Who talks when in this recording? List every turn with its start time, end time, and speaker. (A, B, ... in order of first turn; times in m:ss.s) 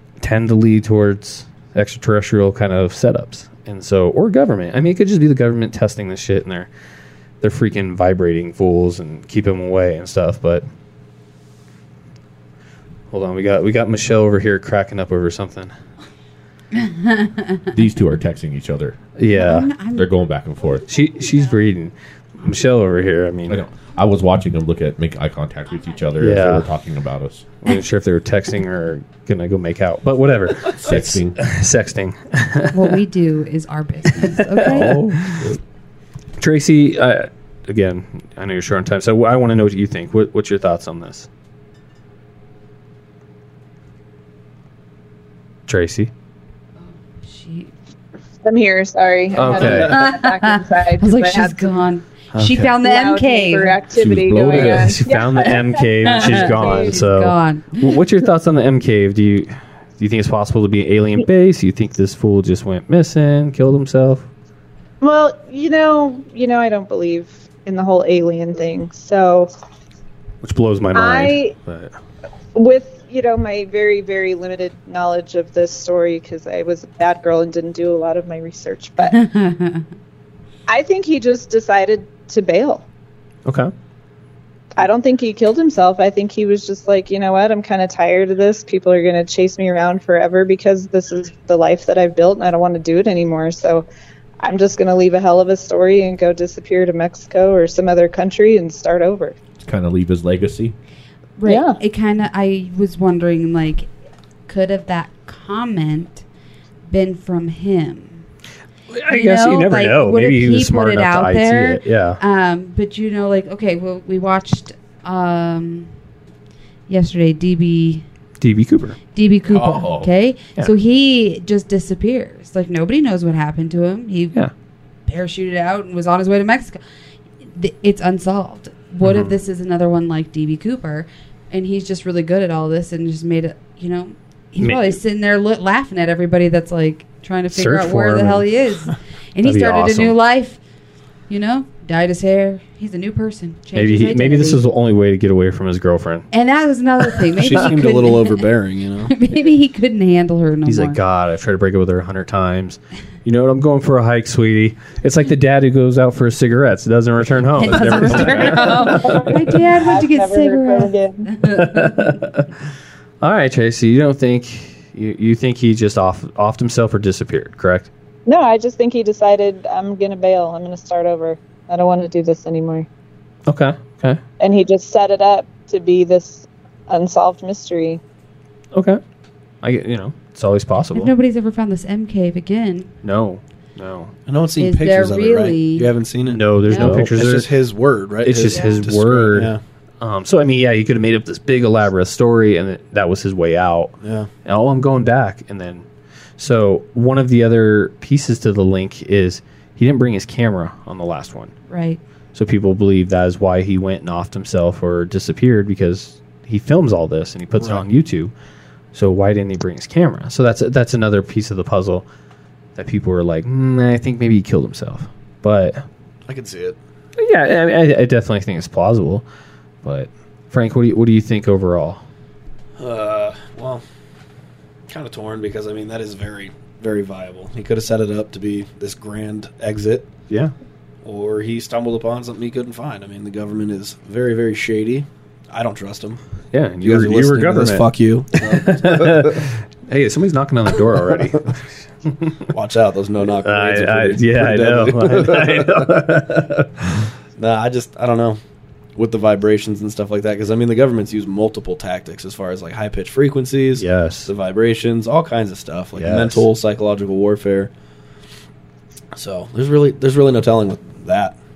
0:00.2-0:06.7 A
0:07.4-0:10.6 A
0:13.1-0:15.7 A
0:16.7-0:17.7 B
0:17.7-0:19.0 C
0:19.2-0:19.7 A
0:19.3-0:20.1 B
0:20.0-0:20.9 C
0:20.9-0:23.6 A
0:23.5-0:27.5 C
0:26.2-0:26.7 A
0:27.6-0:33.0 A
0:30.7-0:31.4 C
0:32.7-0:35.0 B
0:34.2-0:35.5 A
0:34.7-0:35.6 C
0:36.4-0:41.3 A
0:45.7-0:46.1 A
0:46.8-0:47.7 B
0:48.4-0:51.8 D
0:49.3-0:50.0 A
0:49.5-0:53.8 B
0:52.3-0:52.7 A
0:52.8-0:57.0 D
0:53.9-0:55.0 C
0:54.5-1:04.3 A
0:56.0-0:58.0 B
1:05.0-1:09.5 D
1:10.4-1:11.9 A
1:10.9-1:11.5 D
1:12.5-1:19.2 D
1:19.1-1:19.9 B
1:20.7-1:22.9 D
1:23.5-1:23.7 A
1:24.8-1:33.9 D
1:34.4-1:39.4 D
1:39.6-1:40.8 C
1:41.4-1:43.9 B
1:41.4-1:41.8 D
1:44.5-1:46.2 B
1:46.9-1:48.2 B
1:48.9-1:52.2 A
1:49.1-1:55.9 B
1:56.9-1:58.0 B
1:58.4-1:59.0 A
1:59.2-2:04.4 B
1:59.5-2:00.1 C
2:05.1-2:06.8 B
2:07.4-2:20.6 B
2:09.0-2:09.3 A
2:14.6-2:15.0 A
2:17.5-2:18.5 A
2:19.4-2:20.2 A
2:21.3-2:24.6 B
2:23.8-2:26.3 A
2:26.3-2:28.5 B
2:27.4-2:29.1 E
2:29.0-2:31.0 B
2:30.7-2:39.2 A
2:37.6-2:42.3 B
2:38.4-2:41.3 D
2:41.4-2:42.5 A
2:43.2-2:47.9 A
2:48.3-2:52.9 D
2:53.5-2:54.2 A
2:54.4-2:58.0 D
2:58.7-2:59.0 A
2:59.6-3:01.1 A
3:00.9-3:02.9 B
3:03.0-3:04.2 A
3:04.3-3:09.6 E
3:04.6-3:05.9 B
3:06.3-3:07.5 A
3:06.6-3:07.0 B
3:08.2-3:15.8 A
3:14.0-3:14.3 E
3:16.4-3:21.5 A
3:21.7-3:22.0 B
3:22.3-3:28.3 A
3:27.6-3:27.8 E
3:28.9-3:32.1 A
3:32.8-3:35.8 A
3:36.3-3:36.8 E
3:37.2-3:39.2 A
3:39.8-3:42.0 A
3:42.8-3:43.8 E
3:44.9-3:50.1 E
3:51.0-3:56.2 E
3:56.5-4:02.4 A
3:56.8-3:59.4 E
4:02.5-4:05.9 E
4:03.4-4:06.7 A
4:07.4-4:08.4 E
4:09.0-4:17.7 E
4:13.8-4:14.3 A
4:16.0-4:16.5 A
4:19.1-4:21.4 E